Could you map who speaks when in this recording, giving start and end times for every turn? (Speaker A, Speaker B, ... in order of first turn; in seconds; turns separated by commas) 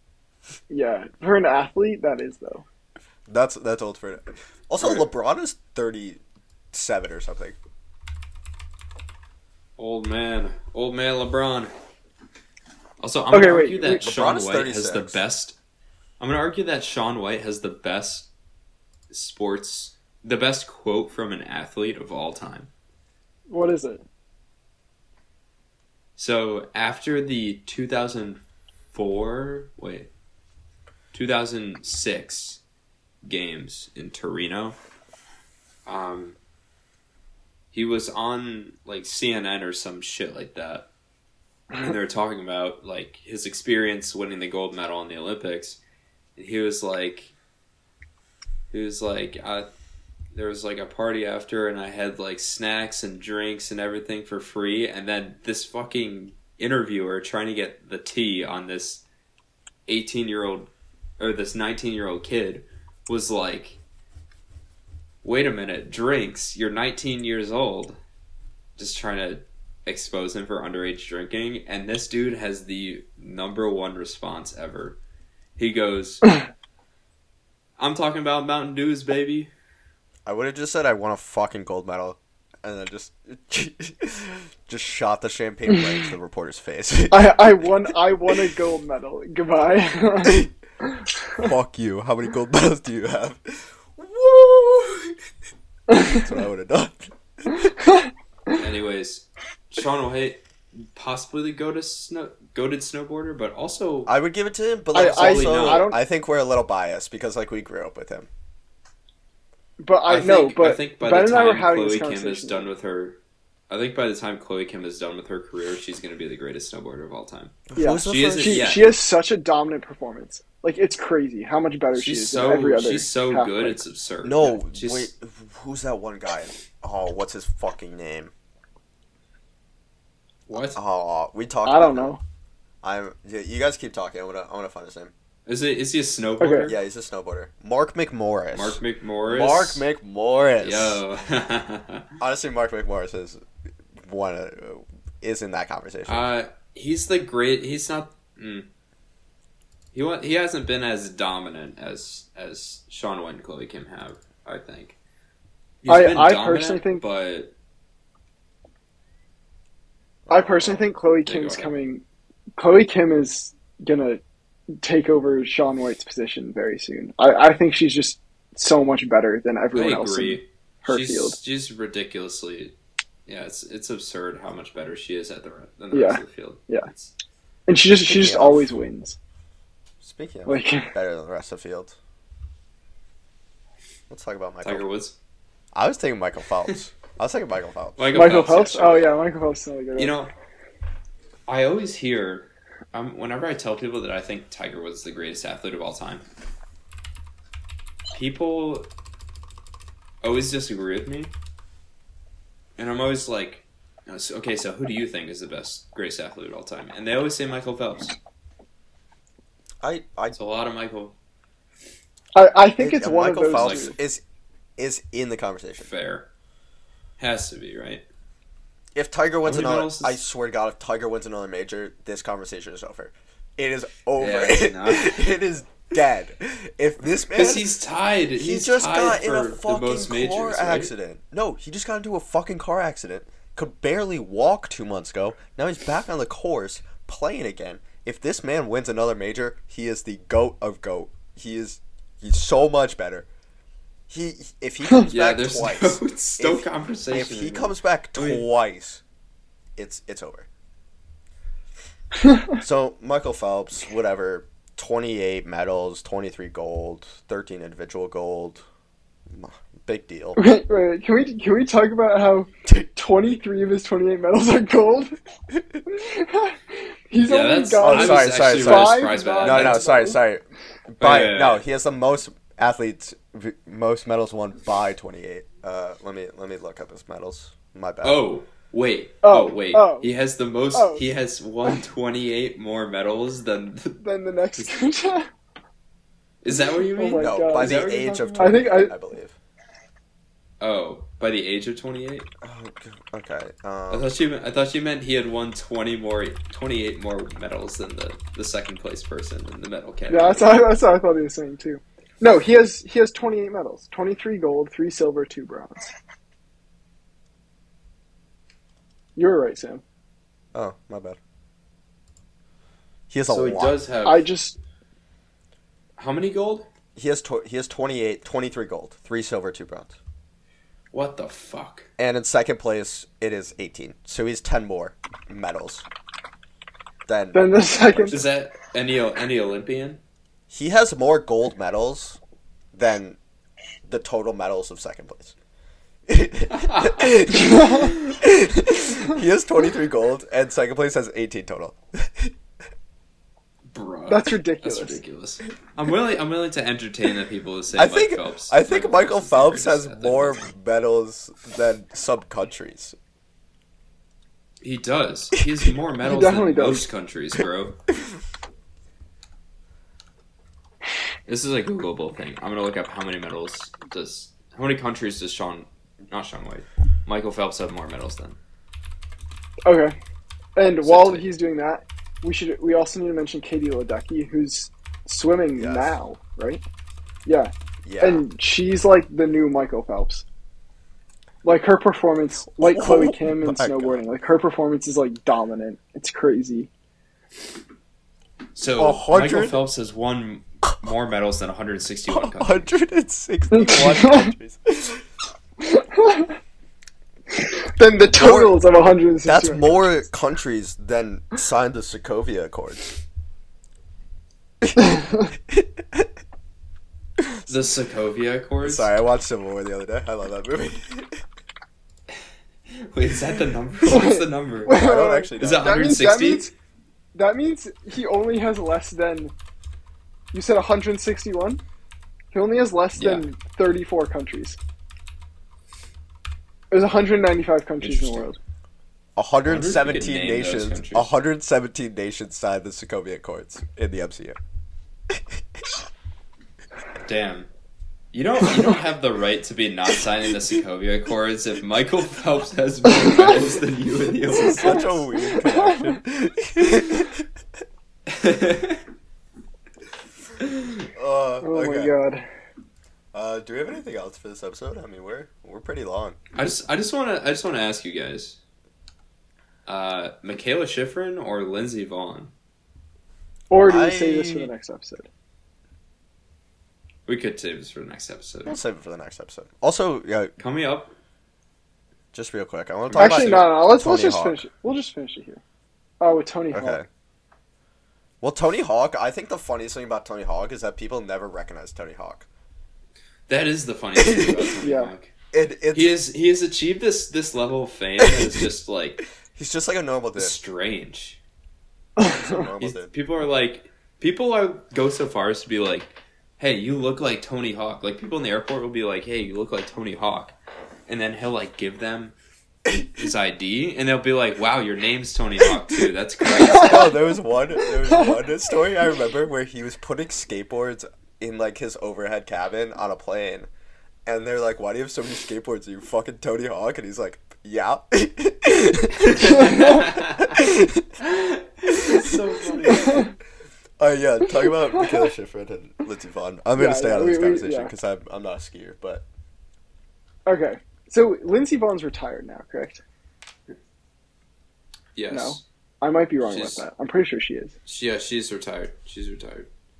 Speaker A: 0.7-2.6, Speaker B: 3.3-6.2, Speaker C: 4.8-5.1, Speaker B: 6.7-7.6, Speaker C: 9.8-11.7, Speaker C: 13.0-15.6, Speaker A: 13.3-14.1, Speaker B: 14.0-15.2, Speaker C: 16.2-18.3, Speaker C: 19.1-22.7, Speaker A: 23.5-24.0, Speaker C: 26.2-28.4, Speaker C: 28.9-30.1, Speaker C: 31.1-32.6, Speaker C: 33.2-34.8, Speaker C: 35.9-36.4, Speaker C: 37.7-40.9, Speaker C: 41.7-45.8, Speaker C: 46.4-47.3, Speaker C: 48.7-49.7, Speaker C: 50.3-59.0, Speaker C: 59.9-63.8, Speaker C: 65.2-68.0, Speaker C: 68.8-75.0, Speaker C: 75.6-76.3, Speaker C: 77.8-79.5, Speaker B: 80.3-87.5, Speaker A: 87.1-90.5, Speaker B: 90.2-90.5, Speaker B: 91.4-95.2, Speaker A: 95.9-96.2, Speaker B: 95.9-97.7, Speaker A: 97.5-98.5, Speaker C: 98.5-104.1, Speaker B: 104.1-108.3, Speaker A: 104.9-106.0, Speaker C: 105.0-105.9, Speaker A: 109.8-112.7, Speaker C: 110.1-113.2, Speaker C: 113.7-119.0, Speaker B: 117.7-118.8, Speaker A: 117.8-123.8, Speaker C: 121.9-125.1, Speaker B: 124.2-128.3, Speaker C: 130.5-130.8, Speaker B: 130.6-132.2, Speaker A: 131.6-132.2, Speaker B: 132.8-135.1, Speaker C: 135.4-136.8, Speaker A: 136.4-136.7, Speaker B: 136.6-141.0, Speaker C: 138.5-139.8, Speaker C: 140.6-142.1, Speaker B: 142.2-143.4, Speaker B: 144.0-146.3, Speaker C: 146.1-148.7, Speaker C: 149.9-155.0, Speaker C: 155.8-157.5, Speaker A: 155.9-157.0, Speaker B: 160.3-160.8, Speaker A: 160.3-162.0, Speaker C: 161.2-161.7, Speaker A: 162.6-164.2, Speaker A: 164.8-171.4, Speaker C: 169.7-172.8, Speaker C: 173.3-177.1, Speaker A: 175.9-176.9, Speaker A: 177.7-179.2, Speaker B: 178.0-178.7, Speaker B: 180.0-181.9, Speaker A: 180.4-180.9, Speaker B: 184.1-184.9, Speaker C: 184.6-185.2, Speaker B: 185.7-188.1, Speaker C: 188.0-189.2, Speaker A: 188.1-190.2, Speaker C: 189.9-190.3, Speaker C: 191.5-196.2, Speaker C: 198.1-198.9, Speaker C: 200.2-201.3, Speaker C: 202.8-208.2, Speaker B: 209.8-210.4, Speaker C: 210.3-211.1, Speaker A: 212.3-213.9, Speaker B: 212.8-214.2, Speaker C: 213.5-213.9, Speaker B: 214.8-215.9, Speaker C: 215.8-216.3, Speaker C: 217.2-218.0, Speaker B: 218.9-227.7, Speaker C: 219.4-220.2, Speaker C: 224.2-225.3, Speaker C: 227.4-230.9, Speaker B: 228.4-243.3, Speaker B: 244.1-249.0, Speaker C: 245.1-248.4, Speaker B: 249.8-250.5, Speaker A: 252.2-252.6, Speaker B: 252.6-258.6, Speaker B: 259.3-260.4, Speaker A: 260.4-265.2, Speaker B: 265.5-265.8, Speaker A: 265.9-270.2, Speaker C: 267.2-269.9, Speaker B: 267.8-278.2, Speaker C: 271.0-271.6, Speaker C: 278.0-284.0, Speaker A: 279.2-280.1, Speaker A: 280.7-281.0, Speaker A: 284.0-285.3, Speaker C: 284.6-284.8, Speaker C: 286.4-288.6, Speaker A: 286.5-288.9, Speaker B: 287.2-289.4, Speaker C: 290.6-292.3, Speaker B: 292.4-294.1, Speaker C: 293.9-300.6, Speaker A: 300.1-305.8, Speaker A: 309.2-309.8, Speaker B: 310.5-311.2, Speaker B: 313.1-313.8, Speaker C: 313.3-314.3, Speaker A: 314.0-314.6, Speaker C: 316.0-316.7, Speaker B: 316.9-319.9, Speaker C: 320.9-321.9, Speaker B: 322.0-325.9, Speaker B: 327.1-328.1, Speaker A: 327.3-328.2, Speaker C: 328.1-330.0, Speaker B: 330.5-332.2, Speaker B: 332.7-333.2, Speaker B: 333.9-335.4, Speaker B: 336.1-342.3, Speaker C: 336.5-337.7, Speaker A: 337.3-338.0, Speaker C: 343.7-350.4, Speaker A: 344.1-345.0, Speaker B: 347.8-352.9, Speaker C: 354.6-357.8, Speaker A: 356.0-356.9, Speaker C: 361.3-368.4, Speaker A: 369.7-370.0, Speaker A: 370.6-376.6, Speaker C: 370.8-371.3, Speaker B: 375.6-375.9, Speaker A: 377.3-380.2, Speaker B: 377.8-378.3, Speaker A: 381.4-386.7, Speaker B: 382.5-384.0, Speaker C: 388.6-392.7, Speaker B: 388.8-389.6, Speaker B: 392.1-395.0, Speaker A: 393.5-394.3, Speaker A: 395.6-396.4, Speaker A: 397.6-399.9, Speaker B: 398.1-398.6, Speaker B: 399.2-402.9, Speaker B: 404.6-406.1, Speaker A: 404.8-405.3, Speaker C: 407.5-408.9, Speaker B: 408.6-411.2, Speaker C: 412.7-414.8, Speaker A: 413.9-416.5, Speaker B: 414.7-415.9, Speaker C: 415.4-416.5, Speaker A: 417.1-419.3, Speaker A: 420.3-421.6, Speaker A: 422.3-424.6, Speaker C: 423.0-423.2, Speaker A: 426.7-428.4, Speaker C: 427.8-428.3, Speaker B: 429.2-434.4, Speaker C: 429.5-431.1, Speaker B: 435.1-435.6, Speaker C: 437.0-437.5, Speaker C: 438.1-444.9, Speaker B: 444.4-447.3, Speaker A: 444.6-445.9, Speaker C: 448.1-448.8, Speaker B: 450.9-451.9, Speaker A: 451.4-452.2, Speaker B: 453.1-456.2, Speaker C: 456.3-458.4, Speaker C: 459.7-462.3, Speaker A: 463.5-465.1, Speaker B: 463.6-464.5, Speaker C: 467.1-468.6, Speaker B: 468.4-470.4, Speaker C: 470.4-470.9, Speaker B: 472.1-474.4, Speaker C: 472.9-473.5, Speaker A: 473.0-475.4, Speaker A: 476.0-476.8, Speaker B: 476.5-476.9, Speaker B: 478.2-482.3, Speaker C: 483.3-485.1, Speaker B: 483.9-484.5, Speaker A: 484.6-484.9, Speaker B: 485.3-485.9, Speaker C: 485.7-489.0, Speaker B: 488.0-488.4, Speaker B: 489.3-490.4, Speaker C: 490.2-491.2, Speaker A: 492.0-492.3, Speaker B: 492.0-492.9, Speaker C: 492.6-500.4, Speaker C: 500.9-502.1, Speaker C: 502.9-507.0, Speaker B: 506.5-513.5, Speaker B: 514.1-521.0, Speaker C: 519.1-520.4, Speaker A: 519.3-519.7, Speaker C: 521.0-523.1, Speaker B: 521.7-523.1, Speaker A: 522.7-523.1, Speaker B: 523.8-529.1, Speaker A: 526.6-527.7, Speaker A: 530.3-532.8, Speaker C: 535.0-535.4, Speaker A: 535.1-537.5, Speaker C: 536.2-536.6, Speaker C: 537.7-539.5